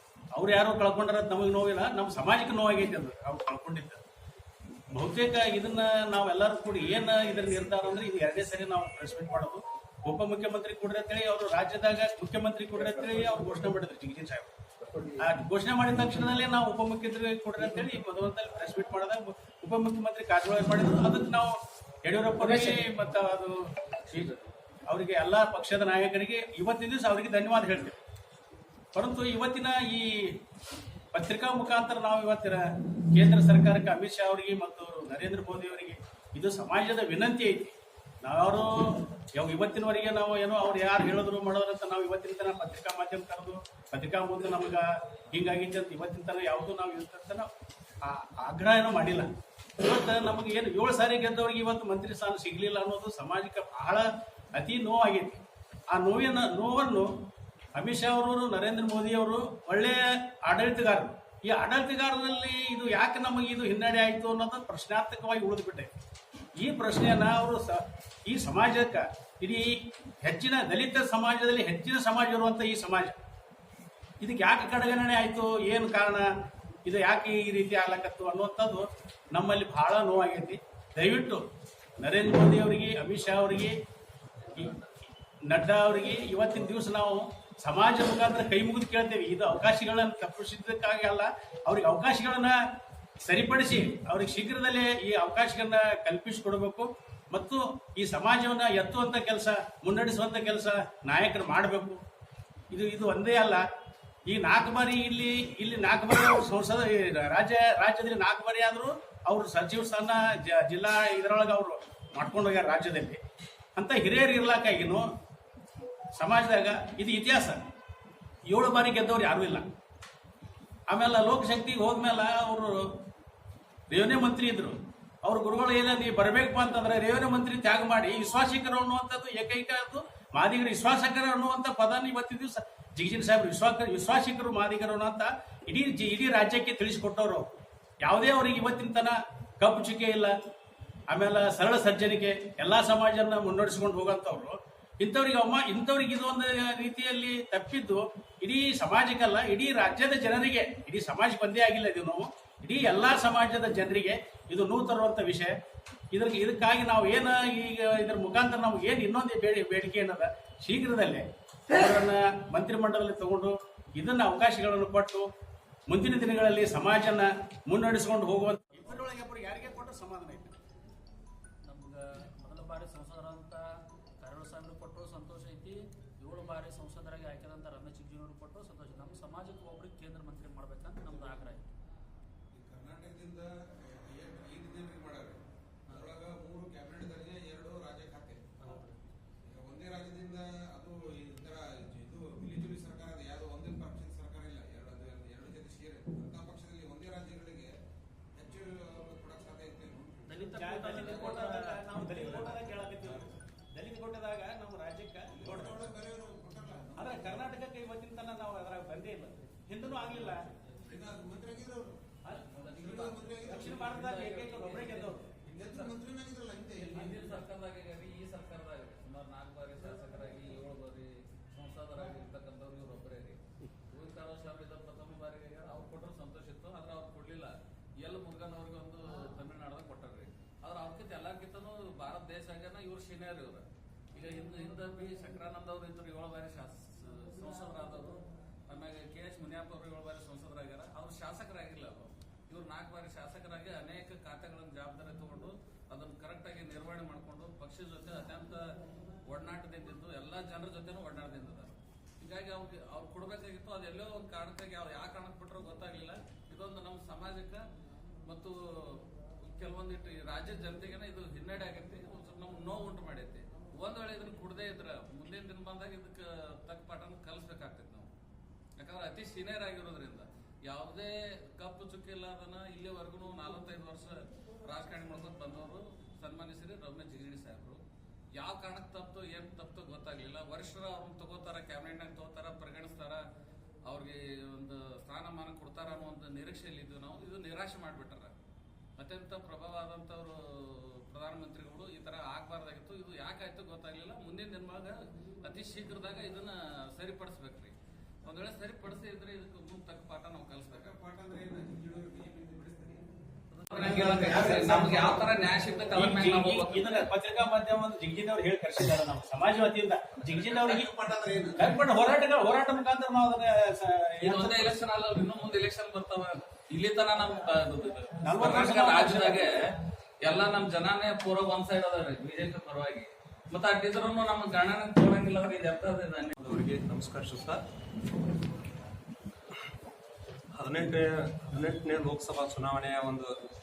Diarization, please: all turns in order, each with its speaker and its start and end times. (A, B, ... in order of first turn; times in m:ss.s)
0:00.3-0:04.0 A
0:04.9-0:14.5 A
0:15.2-0:23.5 A
0:24.9-0:28.0 A
0:28.9-0:30.3 A
0:31.1-0:47.5 A
0:48.0-0:57.1 A
0:57.8-1:05.9 A
1:06.6-1:13.2 A
1:14.2-1:16.2 A
1:16.8-1:21.4 A
1:22.0-1:23.7 A
1:25.5-1:32.6 A
1:33.2-1:42.0 A
1:42.7-1:43.6 A
1:44.3-1:53.2 A
1:53.7-1:55.1 A
1:56.2-1:57.6 A
1:58.5-1:59.6 A
2:00.9-2:03.0 A
2:03.9-2:17.5 A
2:18.0-2:20.3 A
2:21.1-2:35.5 A
2:36.1-2:45.2 A
2:45.9-2:50.6 A
2:51.6-2:53.6 B
2:54.2-3:01.7 B
3:01.1-3:01.5 C
3:02.5-3:08.6 C
3:08.6-3:08.9 B
3:09.4-3:17.7 C
3:18.3-3:20.4 C
3:20.3-3:22.7 B
3:20.4-3:25.9 A
3:21.0-3:21.3 C
3:25.3-3:27.5 C
3:27.0-3:30.4 A
3:30.8-3:32.0 C
3:32.3-3:36.0 D
3:32.7-3:33.9 C
3:33.4-3:35.3 A
3:35.4-3:37.4 C
3:36.8-4:08.6 D
4:09.3-4:17.6 D
4:18.2-4:28.1 D
4:28.8-4:37.8 D
4:38.4-4:43.2 D
4:43.9-4:48.3 D
4:49.0-5:00.9 D
5:00.7-5:03.0 C
5:03.5-5:07.1 D
5:03.7-5:05.2 A
5:03.9-5:05.1 C
5:05.9-5:10.9 A
5:10.3-5:11.8 C
5:11.6-5:14.8 A
5:14.2-5:19.5 D
5:18.2-5:19.5 A
5:20.2-5:26.3 D
5:26.4-5:27.6 E
5:30.6-5:33.3 E